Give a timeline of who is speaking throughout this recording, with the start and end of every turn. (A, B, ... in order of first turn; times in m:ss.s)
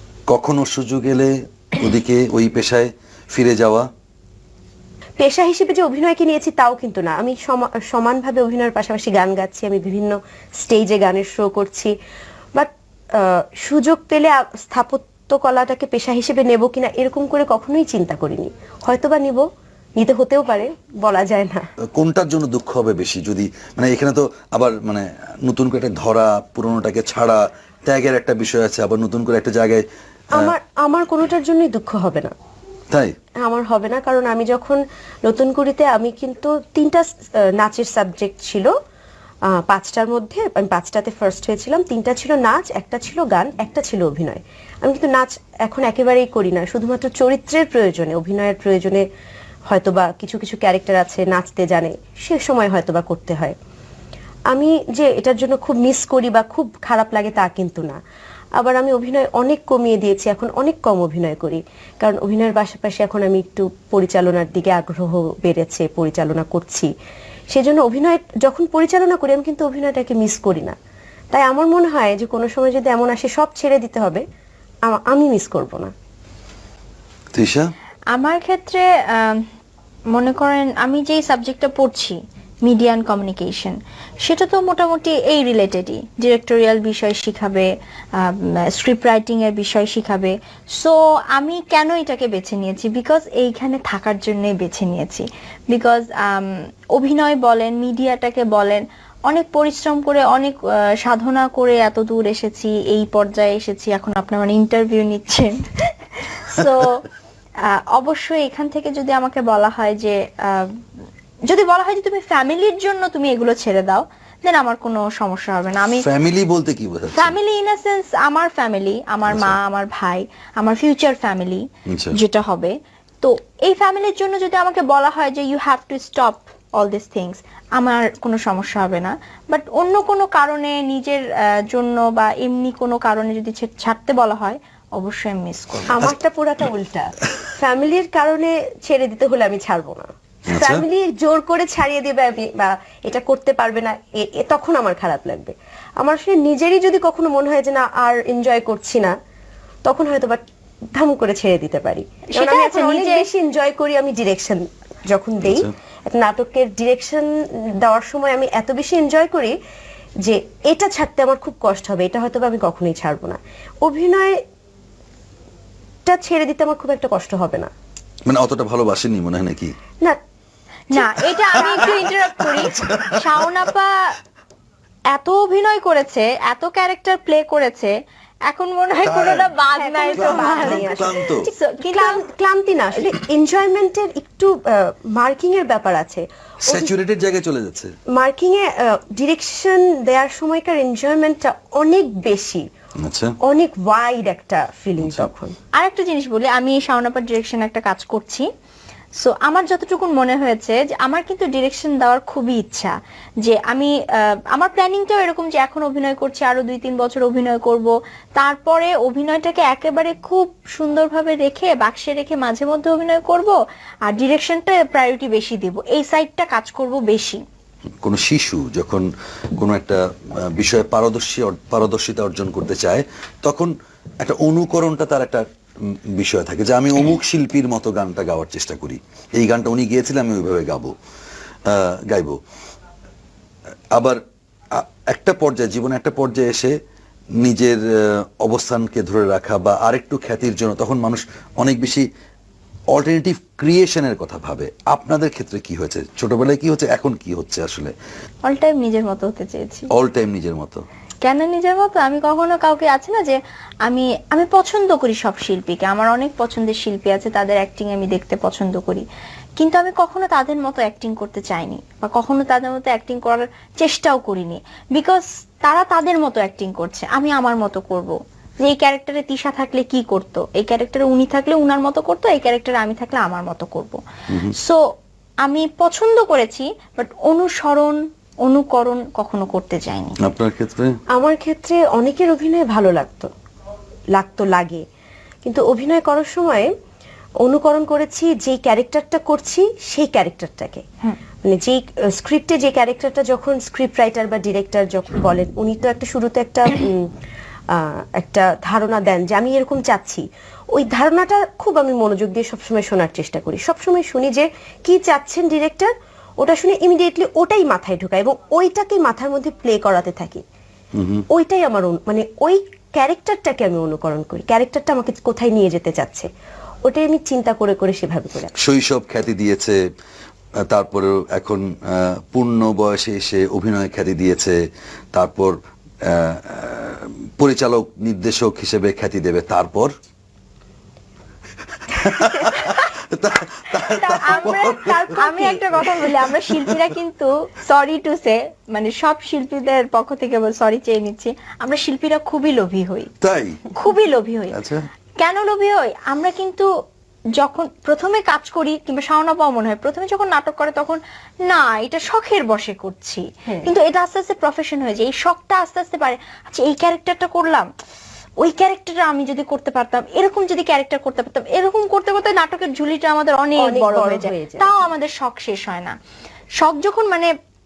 0:00.3-0:03.9 A
0:05.2-0:11.9 B
0:12.6-0:19.4 B
0:20.0-0:21.7 B
0:21.9-0:30.6 A
0:30.4-0:32.3 B
0:33.4-0:38.7 B
0:39.5-0:49.1 B
0:49.7-0:53.6 B
0:54.5-0:58.0 B
0:58.6-1:06.9 B
1:07.5-1:10.8 B
1:11.3-1:14.2 B
1:14.9-1:15.9 B
1:17.3-1:17.7 A
1:18.1-1:19.4 C
1:20.1-1:47.1 C
1:47.6-1:50.7 C
1:51.5-1:56.0 C
1:55.9-1:57.4 A
1:57.1-2:16.0 C
1:59.3-1:59.6 A
2:01.9-2:02.2 A
2:15.9-2:29.1 B
2:20.5-2:20.8 A
2:29.8-2:30.4 B
2:30.9-2:39.6 B
2:32.3-2:33.3 C
2:35.4-2:35.7 A
2:40.2-2:44.4 B
2:46.1-2:47.7 B
2:48.3-2:49.7 A
2:50.9-2:54.2 C
2:51.0-2:51.7 B
2:51.3-2:53.7 A
2:55.1-2:57.9 C
2:58.5-3:02.2 C
2:59.0-2:59.6 A
2:59.7-3:01.2 B
3:00.2-3:01.5 A
3:01.9-3:07.0 B
3:06.7-3:08.0 A
3:08.1-3:12.6 B
3:13.0-3:13.3 A
3:13.4-3:15.6 B
3:15.0-3:15.3 A
3:15.8-3:18.5 C
3:19.2-3:37.4 C
3:38.0-3:50.9 A
3:51.7-3:52.4 A
3:54.0-3:54.2 A
3:54.7-3:56.8 A
3:57.4-4:02.1 A
4:02.9-4:08.0 A
4:08.4-4:09.9 C
4:09.9-4:10.8 A
4:11.2-4:19.1 C
4:19.6-4:34.0 C
4:35.4-4:40.2 C
4:40.2-4:41.0 A
4:41.1-4:43.3 B
4:44.1-4:44.8 B
4:45.5-4:46.7 B
4:47.4-4:50.8 B
4:51.4-4:57.1 B
4:57.7-5:10.4 B
5:11.0-5:11.2 A
5:11.3-5:16.3 B
5:16.8-5:18.5 B
5:18.6-5:19.8 A
5:20.7-5:24.6 A
5:25.1-5:29.9 A
5:31.9-5:35.2 A
5:33.8-5:43.1 C
5:35.2-5:35.6 B
5:35.8-5:36.9 A
5:43.2-5:43.7 A
5:43.8-5:44.6 C
5:44.5-5:44.9 A
5:45.2-5:46.7 C
5:47.4-5:57.7 C
5:58.4-6:06.0 C
6:03.6-6:04.8 B
6:06.6-6:07.3 C